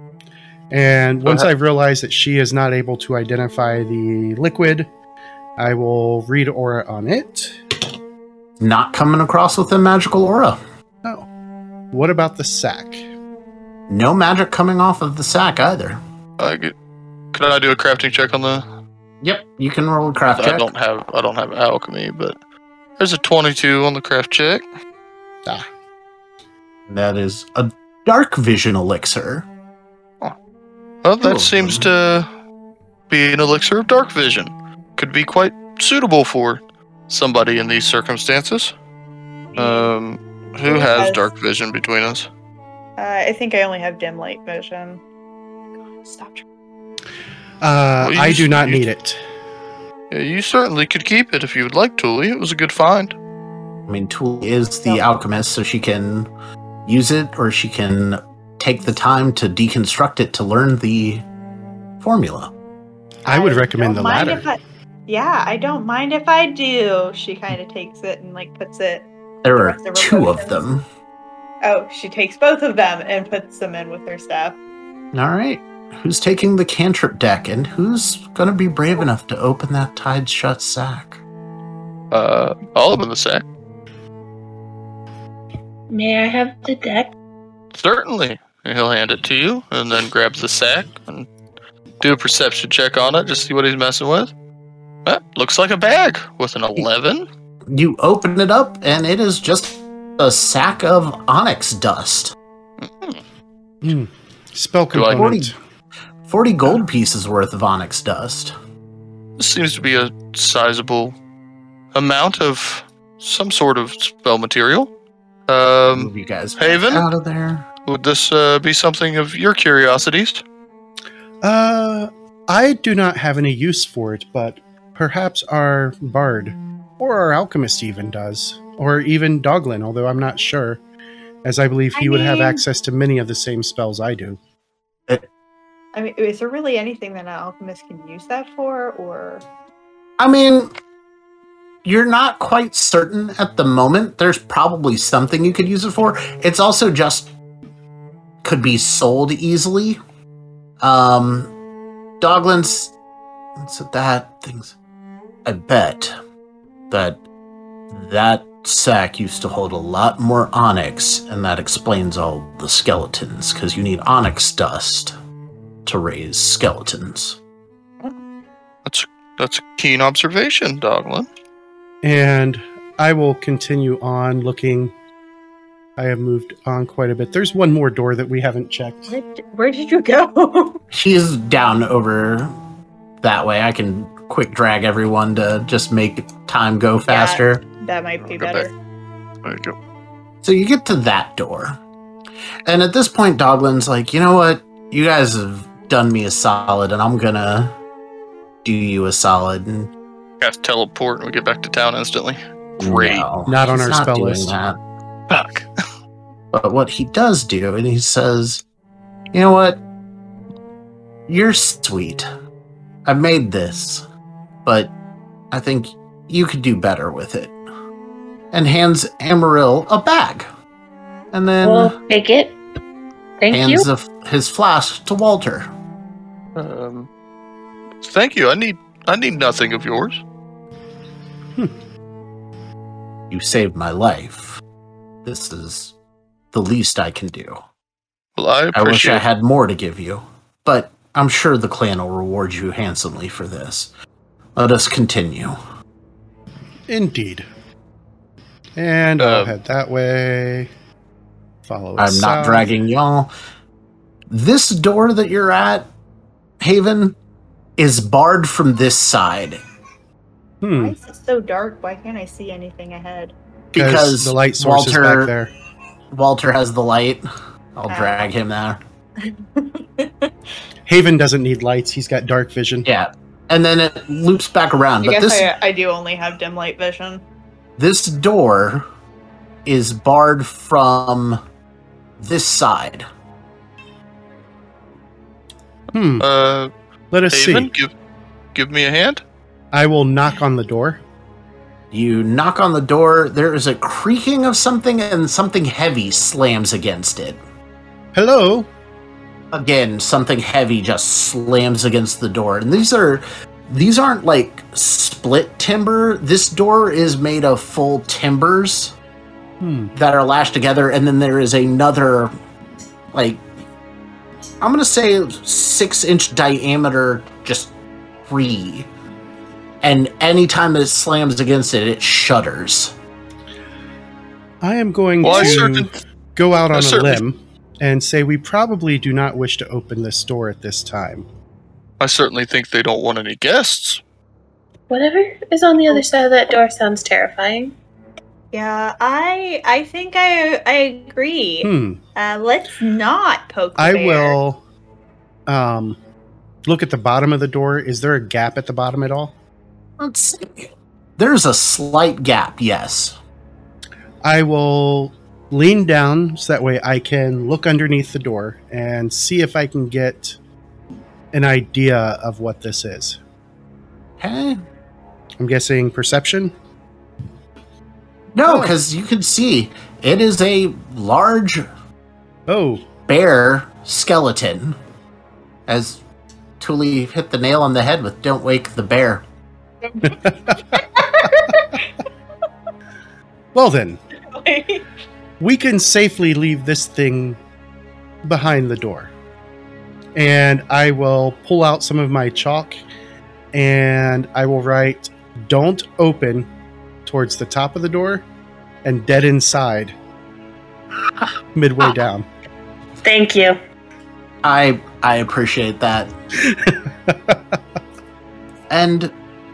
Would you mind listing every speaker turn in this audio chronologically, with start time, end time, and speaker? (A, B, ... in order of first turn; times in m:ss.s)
0:00.7-0:04.9 A
0:05.6-0:07.6 A
0:08.6-0:10.6 B
0:11.9-0:13.0 A
0:13.9-0:16.0 B
0:16.4-0:16.7 C
0:17.3-0:18.6 C
0:19.2-0:20.7 B
0:20.4-0:22.4 C
0:23.0-0:24.6 C
0:26.9-0:29.5 B
0:31.0-0:32.3 C
0:31.2-0:31.9 B
0:33.1-0:38.7 C
0:39.5-0:39.9 D
0:39.6-0:42.3 C
0:40.6-0:41.3 D
0:43.0-0:45.0 D
0:46.0-0:46.4 D
0:47.6-0:49.2 A
0:48.0-0:48.9 C
0:50.1-0:53.2 C
0:53.9-0:56.3 B
0:54.8-0:55.1 D
0:56.8-1:01.2 B
1:02.0-1:02.5 B
1:03.2-1:04.4 A
1:03.3-1:10.6 D
1:09.4-1:10.8 B
1:11.6-1:14.6 D
1:15.1-1:21.2 B
1:22.1-1:23.4 C
1:25.9-1:27.1 E
1:27.7-1:31.3 C
1:32.0-1:34.3 C
1:35.0-1:37.2 C
1:37.7-1:42.3 B
1:42.8-1:43.2 C
1:43.8-1:45.6 A
1:44.9-1:45.4 C
1:45.1-1:45.5 B
1:46.2-1:48.5 B
1:49.4-1:51.2 C
1:51.9-1:54.9 C
1:55.5-1:57.0 C
1:55.9-1:57.7 B
1:57.8-2:00.4 C
2:01.4-2:10.8 A
2:11.4-2:14.4 A
2:11.9-2:12.6 D
2:15.9-2:19.4 D
2:20.2-2:20.7 B
2:21.8-2:27.3 B
2:28.4-2:30.0 B
2:30.8-2:31.5 B
2:32.2-2:32.9 B
2:33.6-2:34.7 B
2:35.4-2:36.2 B
2:36.9-2:37.2 B
2:37.9-2:45.1 B
2:45.8-2:47.4 B
2:48.8-2:51.3 C
2:52.0-2:54.9 A
2:56.0-2:59.1 A
2:59.1-3:00.8 D
3:00.9-3:02.5 B
3:03.2-3:07.6 B
3:07.0-3:08.7 D
3:08.2-3:08.7 C
3:09.4-3:09.8 C
3:10.4-3:11.8 B
3:12.6-3:17.8 B
3:18.6-3:19.9 B
3:20.4-3:23.3 C
3:22.8-3:24.8 B
3:23.5-3:24.5 A
3:25.3-3:25.7 C
3:26.5-3:28.6 B
3:29.3-3:29.8 B
3:31.3-3:32.2 B
3:33.0-3:34.0 B
3:34.6-3:34.9 B
3:35.5-3:37.5 B
3:38.5-3:40.5 B
3:41.3-3:41.9 B
3:41.6-3:42.6 E
3:43.4-3:43.8 E
3:43.5-3:45.7 B
3:46.5-3:47.1 C
3:48.0-3:50.2 C
3:53.3-3:54.6 B
3:55.2-3:55.9 B
3:56.5-3:57.6 B
3:58.4-3:59.2 C
3:58.7-4:03.9 B
4:04.6-4:05.6 B
4:06.9-4:07.5 A
4:08.8-4:10.7 A
4:09.2-4:09.5 C
4:11.6-4:12.7 A
4:12.0-4:13.3 B
4:14.3-4:15.9 B
4:16.6-4:17.1 B
4:17.8-4:19.6 B
4:20.6-4:21.0 A
4:20.8-4:23.3 D
4:23.7-4:25.3 B
4:23.8-4:25.5 A
4:26.1-4:28.8 B
4:27.9-4:28.2 D
4:29.2-4:30.3 D
4:30.9-4:32.9 A
4:32.8-4:35.5 B
4:35.0-4:37.2 D
4:37.8-4:38.8 B
4:39.6-4:41.4 B
4:42.2-4:43.1 B
4:45.9-4:46.3 A
4:46.2-4:46.7 C
4:47.1-4:47.7 A
4:47.3-4:47.9 C
4:48.5-4:49.2 C
4:49.7-4:51.0 A
4:51.9-4:57.4 B
4:58.1-4:58.7 A
4:59.5-5:08.9 B
5:09.6-5:09.9 A
5:09.9-5:12.3 B
5:13.1-5:13.4 B
5:14.6-5:17.7 B
5:18.3-5:18.9 B
5:19.8-5:22.9 B
5:24.6-5:31.2 A
5:25.2-5:25.9 C
5:26.7-5:27.2 C
5:32.0-5:34.0 C
5:34.9-5:37.7 E
5:38.5-5:44.4 D
5:41.6-5:42.0 A
5:43.8-5:44.6 A
5:45.5-5:46.0 A
5:46.6-5:49.3 A
5:50.0-5:53.2 B
5:54.2-6:00.4 A
6:01.3-6:03.2 A
6:04.2-6:04.6 B
6:05.4-6:06.5 A
6:08.3-6:11.7 B
6:08.4-6:08.7 A
6:12.5-6:12.8 A
6:13.1-6:14.8 B
6:15.7-6:16.0 B
6:16.6-6:19.2 B
6:20.0-6:20.8 A
6:20.8-6:21.6 D
6:23.5-6:24.0 A
6:24.3-6:24.8 D
6:25.4-6:27.4 A
6:28.2-6:29.1 A
6:30.2-6:32.8 A
6:33.5-6:36.5 A
6:37.0-6:38.2 A
6:38.8-6:39.9 A
6:41.5-6:42.2 A
6:43.0-6:43.6 E
6:44.4-6:46.1 B
6:46.4-6:47.4 A
6:48.7-6:49.1 B